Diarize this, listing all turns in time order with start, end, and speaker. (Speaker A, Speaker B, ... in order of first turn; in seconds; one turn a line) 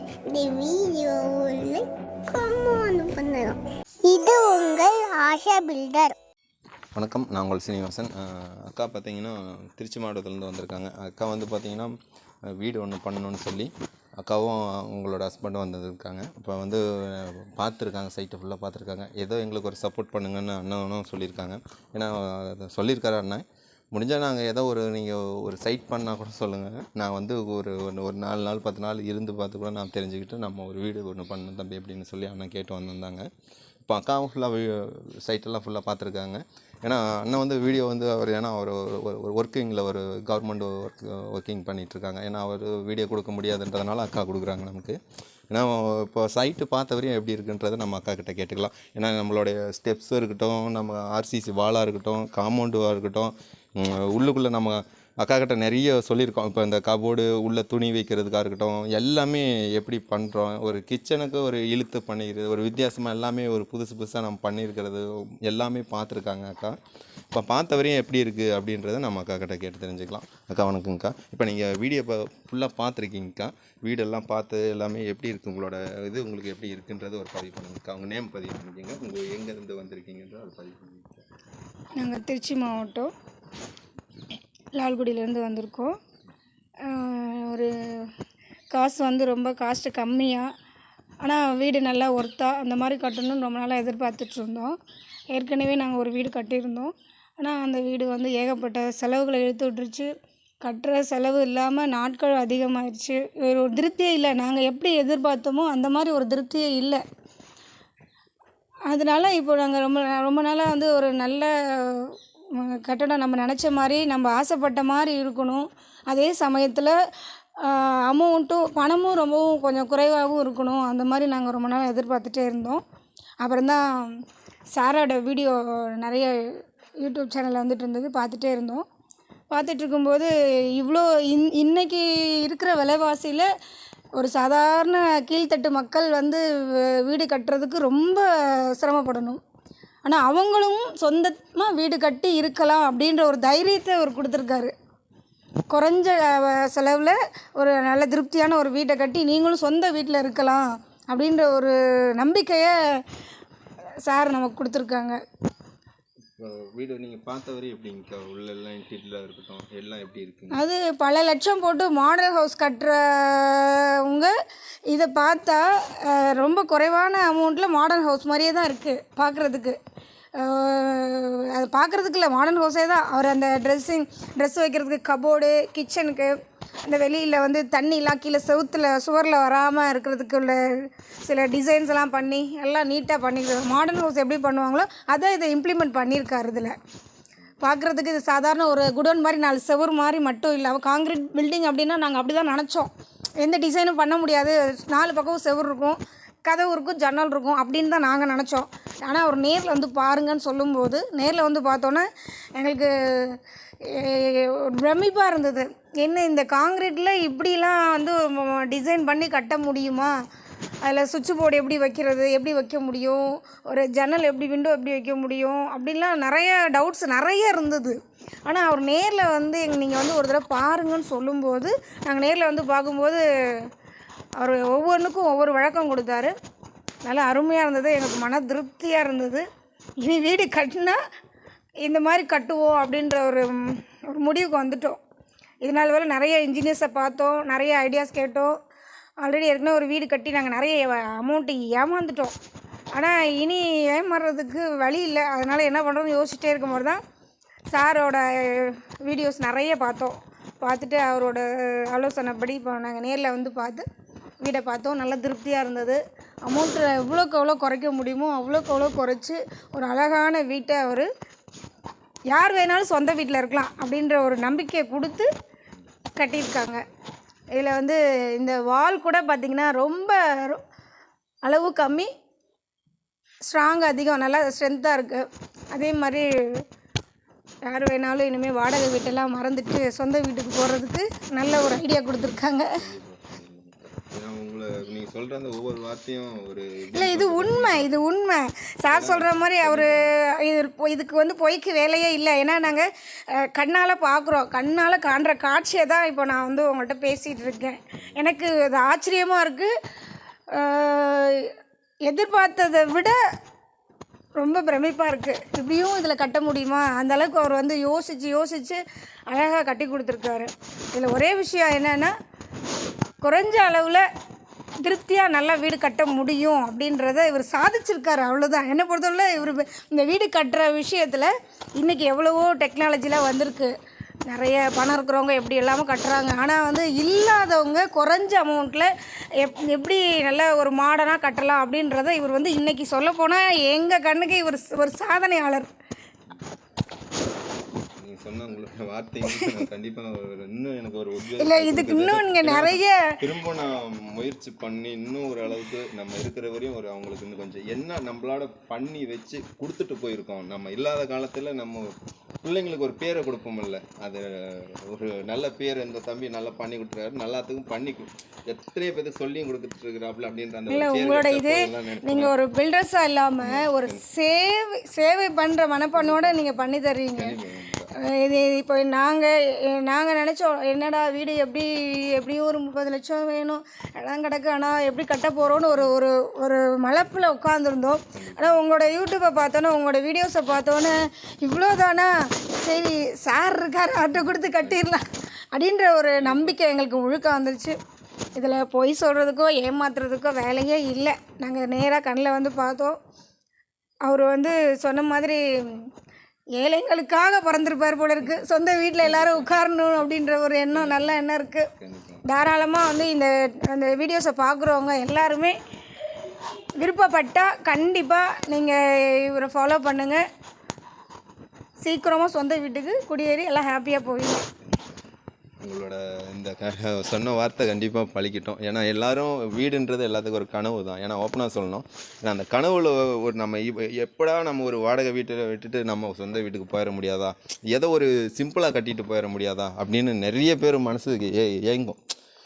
Speaker A: 0.3-6.2
Speaker B: 7.0-11.9
Speaker B: 12.5-33.3
Speaker B: 33.8-45.0
Speaker B: 45.5-66.8
Speaker B: 67.3-81.2
Speaker C: 82.0-83.1
Speaker C: 84.8-86.0
Speaker C: 86.8-88.1
Speaker C: 88.7-90.5
Speaker C: 91.2-94.8
Speaker C: 95.3-100.1
Speaker C: 100.6-107.0
Speaker C: 108.9-116.9
Speaker C: 117.6-122.8
Speaker C: 123.4-124.1
Speaker C: 124.7-126.4
Speaker C: 127.0-128.8
Speaker C: 129.5-133.5
Speaker C: 134.2-139.4
Speaker C: 140.1-144.7
Speaker C: 145.7-152.7
Speaker C: 154.1-155.2
Speaker B: 156.4-160.6
Speaker C: 160.5-164.3
Speaker C: 164.9-169.8
Speaker C: 170.4-176.3
Speaker C: 176.9-180.6
Speaker C: 181.2-186.8
Speaker C: 187.6-210.2
Speaker C: 210.8-218.0
Speaker C: 218.5-223.2
Speaker C: 224.4-226.3
Speaker C: 227.0-229.4
Speaker C: 230.0-231.0
Speaker C: 231.8-235.0
Speaker C: 235.6-238.5
Speaker C: 239.2-242.3
Speaker C: 242.9-247.0
Speaker C: 247.7-253.8
Speaker C: 254.4-261.1
Speaker C: 262.3-265.3
Speaker C: 266.2-266.8
Speaker C: 267.6-270.6
Speaker C: 271.4-272.1
Speaker C: 273.5-276.3
Speaker C: 277.7-282.8
Speaker B: 282.1-288.0
Speaker C: 286.9-299.7
Speaker B: 288.9-290.2
Speaker C: 300.5-301.5
Speaker C: 302.1-303.2
Speaker C: 304.4-312.1
Speaker C: 313.2-314.1
Speaker C: 314.8-323.7
Speaker C: 324.3-335.7
Speaker B: 338.0-362.3
Speaker C: 341.4-343.1
Speaker C: 360.7-367.4
Speaker B: 363.4-364.0
Speaker B: 365.9-366.5
Speaker B: 367.1-367.9
Speaker C: 368.0-387.8
Speaker B: 378.1-378.6
Speaker B: 384.1-385.3
Speaker B: 386.2-386.6
Speaker C: 388.4-393.0
Speaker C: 394.0-395.8
Speaker C: 396.6-401.7
Speaker B: 398.2-399.8
Speaker B: 400.7-401.2
Speaker B: 401.8-402.2
Speaker C: 402.3-405.6
Speaker C: 406.8-410.2
Speaker C: 411.8-414.4
Speaker B: 414.6-415.0
Speaker B: 415.6-432.1